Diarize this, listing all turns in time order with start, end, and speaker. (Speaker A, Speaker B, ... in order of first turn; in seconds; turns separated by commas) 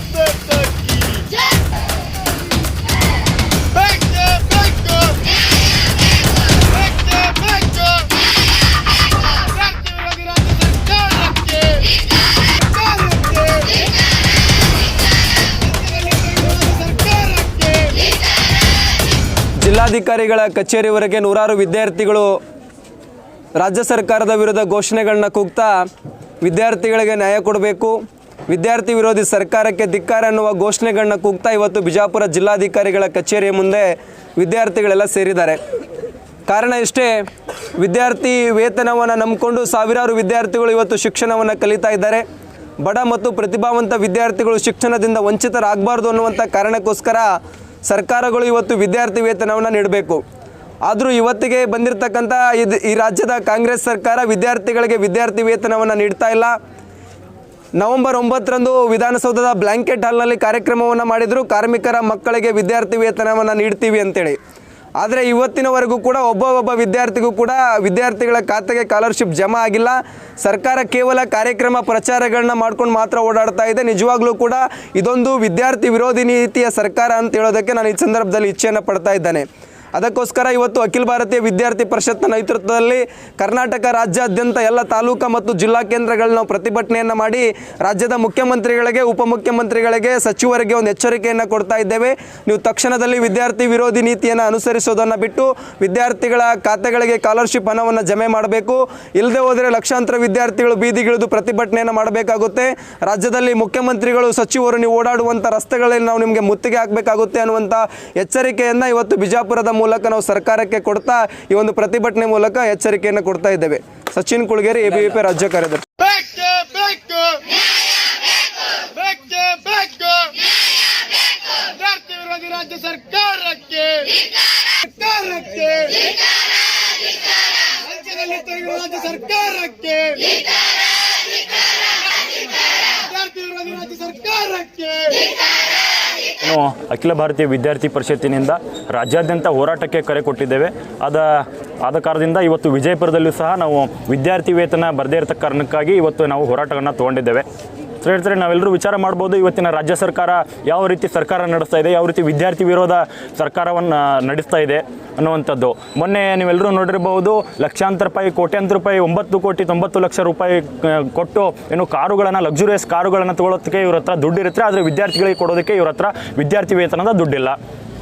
Speaker A: 6.9-7.7, Speaker A: 9.6-11.2, Speaker B: 11.4-11.8, Speaker A: 12.8-13.2, Speaker A: 16.1-17.6, Speaker A: 19.6-22.3, Speaker A: 23.6-25.7, Speaker A: 26.4-28.0, Speaker A: 28.5-35.6, Speaker A: 36.5-37.1, Speaker A: 37.8-42.2, Speaker A: 42.8-47.3, Speaker A: 47.8-50.2, Speaker A: 50.9-56.5, Speaker A: 57.8-64.4, Speaker A: 65.0-116.2, Speaker B: 116.3-117.4, Speaker B: 119.0-119.6, Speaker B: 121.9-122.6, Speaker B: 123.6-124.0, Speaker A: 125.2-125.5, Speaker B: 125.2-126.0, Speaker B: 128.6-130.1, Speaker B: 134.2-135.2, Speaker C: 136.4-147.4, Speaker C: 148.0-167.6